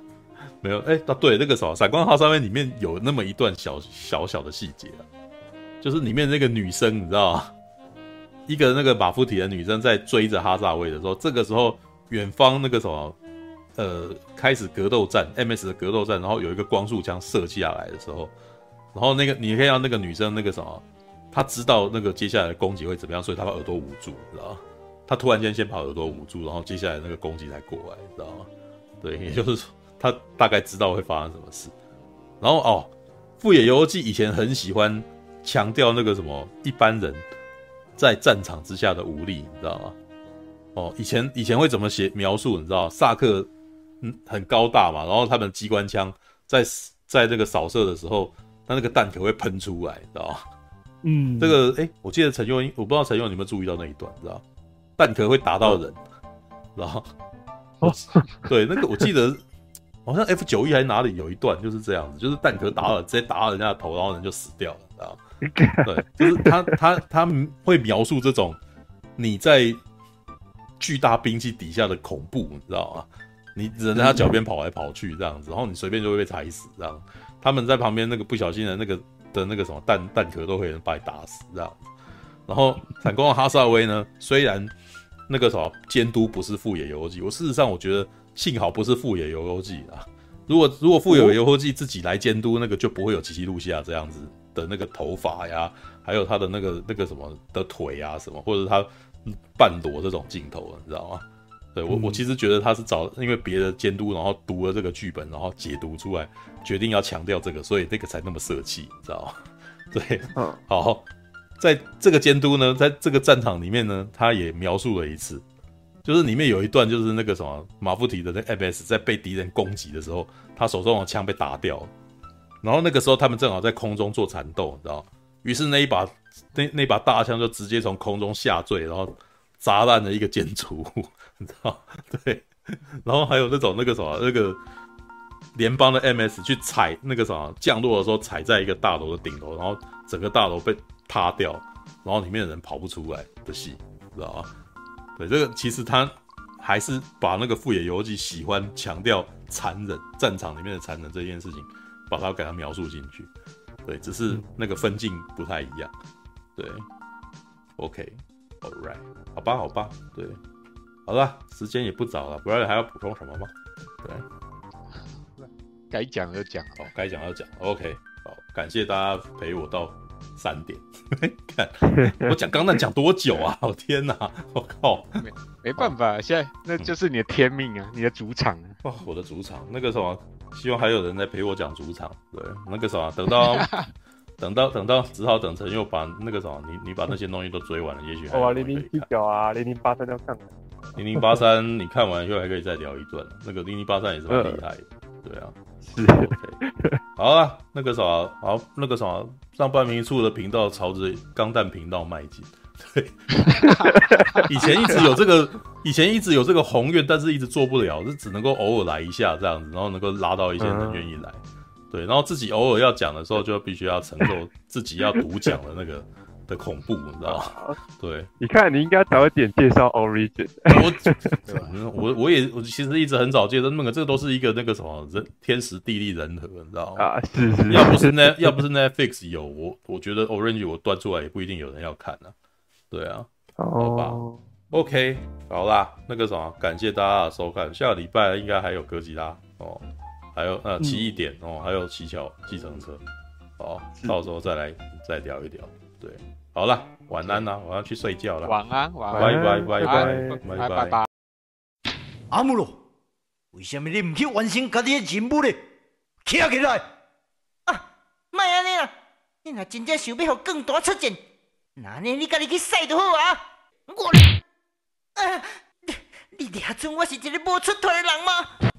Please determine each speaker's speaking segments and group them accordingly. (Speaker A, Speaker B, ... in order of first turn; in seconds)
Speaker A: 0.6-5.1, 5.8-7.5, 8.5-13.2, 13.8-18.3, 18.9-28.5, 29.0-31.7, 32.4-37.2, 38.0-40.0, 40.7-43.5, 44.0-50.4, 51.4-54.4, 55.0-56.0, 56.8-57.1, 57.8-59.4, 60.0-65.2, 65.8-68.6, 69.2-69.8, 70.8-81.8, 82.5-84.7, 85.3-109.4, 109.9-111.0, 111.6-115.4, 116.0-121.9, 122.6-134.6, 135.5-144.5, 145.2-153.3, 153.8-155.9, 156.6-156.8, 157.8-160.4, 161.1-163.5, 166.8-175.2, 178.8-183.7, 184.4-189.1, 190.9-196.6, 197.2-203.7, 204.4-218.3, 220.7-227.1, 227.7-232.3, 232.9-234.2, 234.7-243.0, 243.6-248.6, 249.2-251.0
Speaker B: 51.0-51.6, 57.8-58.5, 65.4-66.8, 74.0-74.3, 101.9-102.2, 110.3-110.6, 171.9-172.3, 188.3-190.5, 194.3-194.6, 195.9-197.0, 203.4-204.7, 210.6-211.1, 217.2-217.8, 218.4-221.4, 227.0-228.6, 233.6-234.4, 240.8-241.1, 249.1-250.4
Speaker C: 165.1-166.8, 175.2-178.8, 183.4-183.9, 203.5-205.0, 221.5-221.7, 248.4-251.1
Speaker D: 252.3-252.8, 253.5-255.6, 256.2-256.8, 257.7-258.9, 259.4-261.2, 261.8-264.4, 265.1-268.5